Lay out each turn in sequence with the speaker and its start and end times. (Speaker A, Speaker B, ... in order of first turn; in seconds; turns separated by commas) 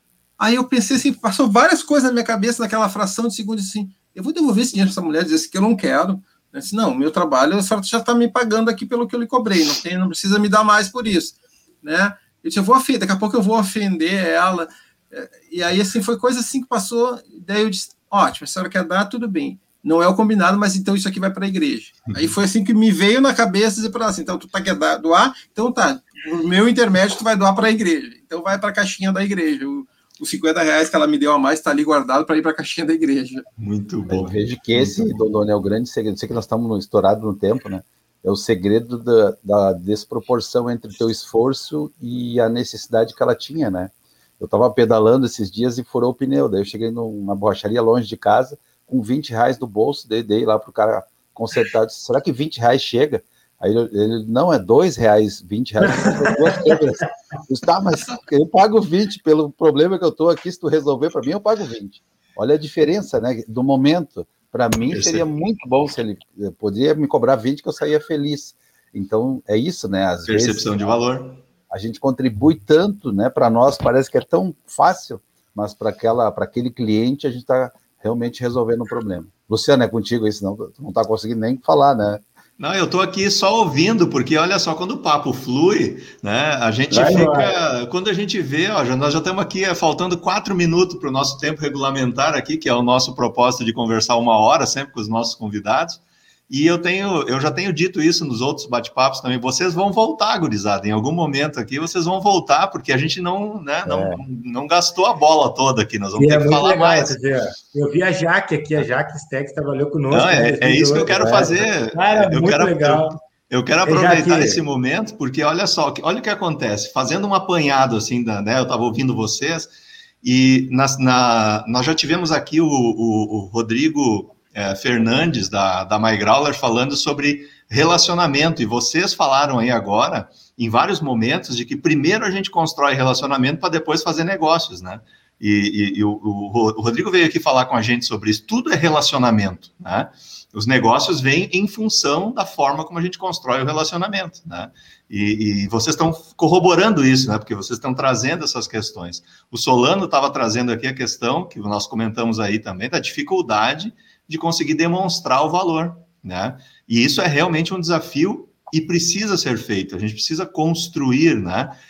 Speaker A: 0.4-33.4, Speaker B: 33.6-35.2, Speaker C: 34.1-71.0, Speaker D: 55.8-56.8, Speaker B: 64.9-65.2, Speaker B: 70.3-71.4, Speaker C: 71.7-82.2, Speaker B: 82.6-107.2, Speaker D: 86.9-87.5, Speaker C: 103.8-104.2, Speaker D: 106.2-113.2, Speaker B: 110.1-119.7, Speaker D: 113.8-114.6, Speaker B: 120.2-161.7